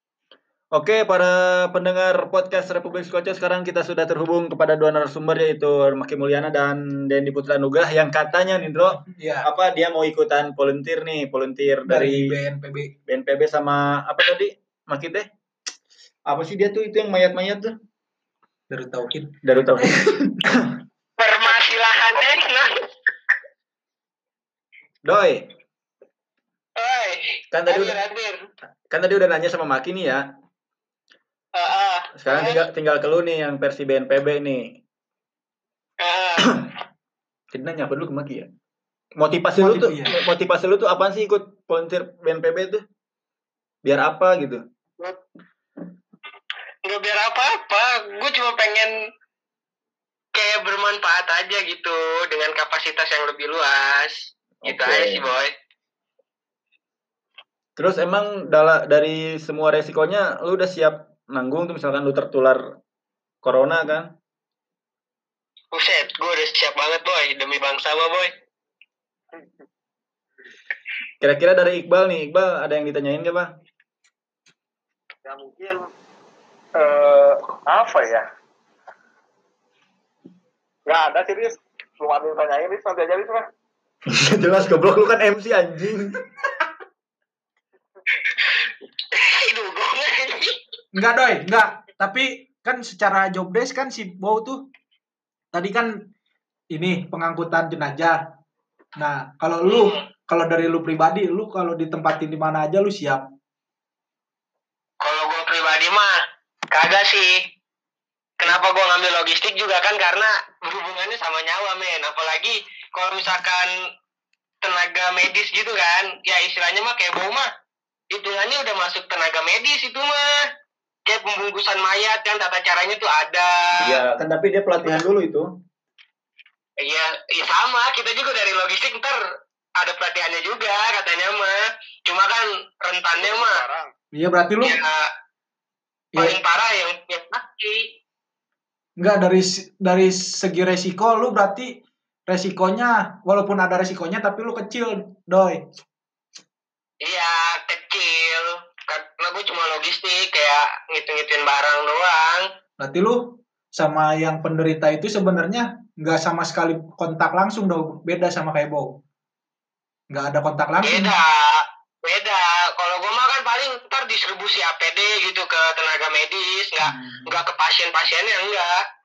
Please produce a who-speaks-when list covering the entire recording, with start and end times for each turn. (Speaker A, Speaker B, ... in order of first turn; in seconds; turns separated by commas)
Speaker A: 0.7-12.4, Speaker B: 9.0-9.5, Speaker B: 11.9-12.9, Speaker A: 13.1-15.3, Speaker A: 16.3-17.7, Speaker B: 18.7-19.8, Speaker A: 19.4-20.6, Speaker C: 21.2-22.9, Speaker A: 25.0-25.4, Speaker C: 26.8-28.5, Speaker A: 27.5-27.9, Speaker A: 28.9-30.3, Speaker C: 31.5-32.6, Speaker A: 32.1-34.8, Speaker C: 36.0-36.6, Speaker A: 37.5-38.5, Speaker A: 39.2-42.8, Speaker B: 39.6-40.2, Speaker A: 43.8-44.6, Speaker C: 46.8-48.9, Speaker C: 50.3-55.5, Speaker A: 54.6-55.2, Speaker A: 57.8-62.6, Speaker A: 63.4-64.1, Speaker C: 65.7-68.3, Speaker A: 71.2-73.5, Speaker D: 75.2-75.9, Speaker D: 76.8-78.2, Speaker D: 80.8-83.5, Speaker A: 84.1-86.2, Speaker C: 89.1-90.6, Speaker B: 90.9-94.6, Speaker B: 95.5-96.0, Speaker B: 96.7-98.2, Speaker B: 99.0-103.2, Speaker C: 99.7-100.0, Speaker C: 105.0-106.2, Speaker C: 106.7-107.5, Speaker C: 108.4-113.7, Speaker C: 114.6-117.5, Speaker C: 118.1-120.4, Speaker C: 121.0-124.0, Speaker A: 123.8-125.5, Speaker C: 126.8-129.2, Speaker C: 129.8-133.6, Speaker D: 133.2-133.9, Speaker B: 134.1-134.8, Speaker C: 134.6-135.1, Speaker C: 136.1-137.9, Speaker B: 139.0-145.6, Speaker C: 147.0-152.5, Speaker B: 152.8-158.9, Speaker B: 160.1-161.2, Speaker C: 160.8-168.8, Speaker B: 166.8-167.3